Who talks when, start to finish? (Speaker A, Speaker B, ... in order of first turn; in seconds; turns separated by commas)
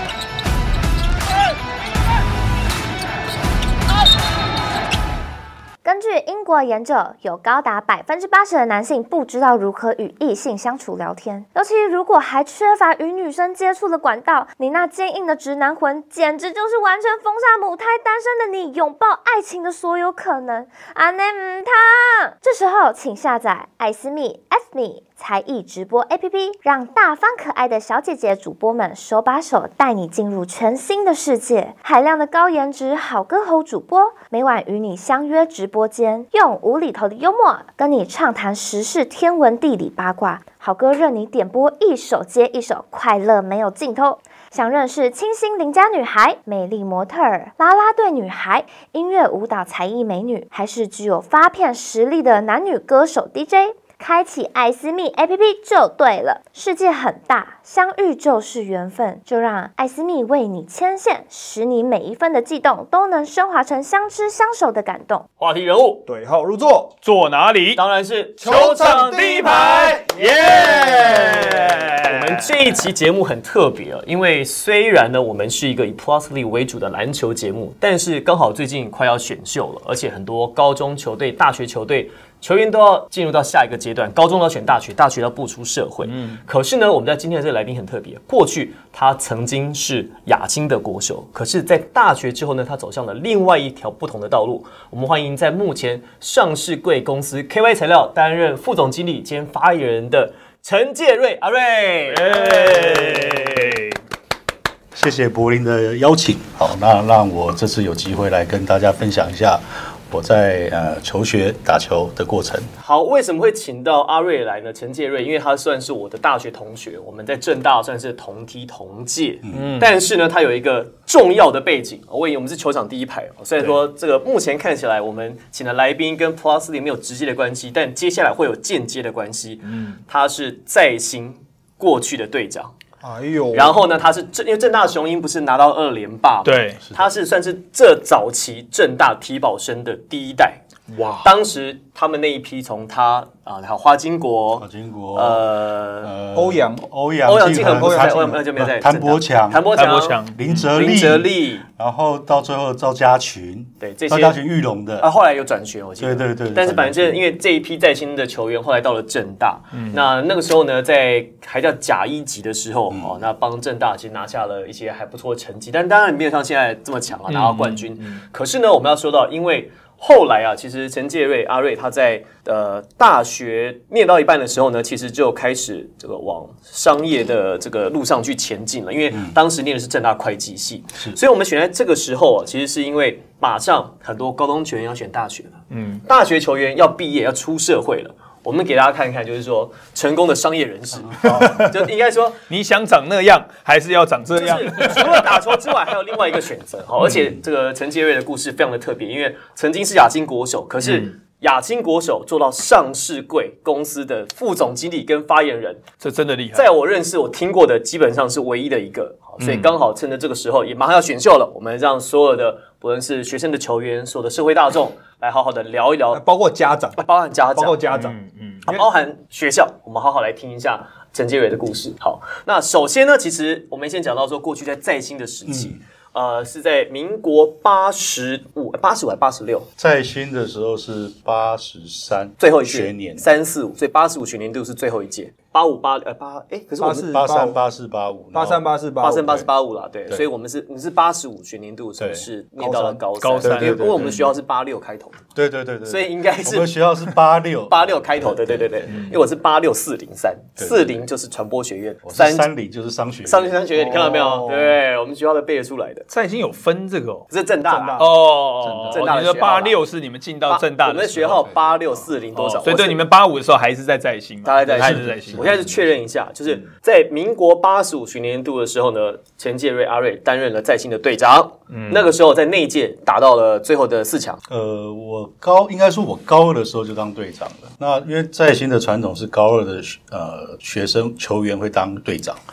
Speaker A: 5.8-65.3, Speaker B: 65.4-66.0, Speaker C: 66.1-67.0, Speaker D: 67.0-67.8, Speaker B: 67.8-103.7, Speaker C: 68.4-71.9, Speaker D: 68.7-72.5, Speaker D: 86.0-86.4, Speaker D: 102.1-104.0, Speaker E: 104.9-112.7, Speaker B: 112.8-132.7, Speaker E: 119.5-119.8, Speaker D: 119.5-119.9, Speaker C: 133.0-133.8, Speaker B: 133.5-140.6, Speaker D: 136.4-136.8, Speaker E: 136.8-137.1, Speaker D: 140.9-141.3, Speaker B: 141.2-146.1, Speaker E: 144.6-145.5, Speaker E: 146.0-155.1, Speaker C: 146.3-146.9, Speaker B: 147.2-151.7, Speaker C: 147.7-148.3, Speaker D: 149.7-150.7, Speaker B: 153.8-154.4, Speaker B: 155.0-192.4, Speaker E: 156.0-157.2, Speaker D: 159.7-160.1, Speaker E: 162.9-163.2, Speaker D: 167.3-168.2, Speaker D: 185.7-186.0, Speaker D: 191.2-191.6, Speaker D: 192.5-195.6, Speaker B: 194.3-205.9, Speaker D: 200.8-201.1, Speaker D: 206.0-206.7, Speaker B: 206.5-216.2, Speaker D: 209.4-209.7, Speaker C: 216.1-217.0, Speaker B: 217.0-217.8, Speaker C: 217.5-218.8, Speaker D: 217.9-218.7, Speaker B: 218.7-229.7, Speaker E: 225.5-225.8, Speaker E: 229.8-233.2, Speaker B: 232.4-237.1, Speaker C: 236.8-237.6, Speaker E: 236.8-238.6, Speaker C: 238.3-239.4, Speaker B: 239.0-245.2, Speaker E: 242.0-242.2, Speaker C: 242.6-243.0, Speaker D: 243.2-244.3, Speaker E: 243.4-244.1, Speaker E: 245.3-249.0, Speaker B: 245.8-247.1, Speaker B: 247.7-252.5, Speaker E: 250.6-251.0, Speaker E: 252.1-253.7, Speaker B: 253.2-256.1, Speaker C: 253.7-254.8, Speaker D: 256.1-257.3, Speaker B: 257.3-258.1, Speaker C: 257.7-258.1, Speaker D: 258.0-261.5, Speaker E: 258.6-259.0, Speaker B: 258.9-259.8, Speaker B: 260.4-263.0, Speaker D: 262.4-265.5, Speaker B: 264.4-274.4, Speaker E: 264.8-265.7, Speaker D: 271.7-272.1, Speaker E: 274.5-282.4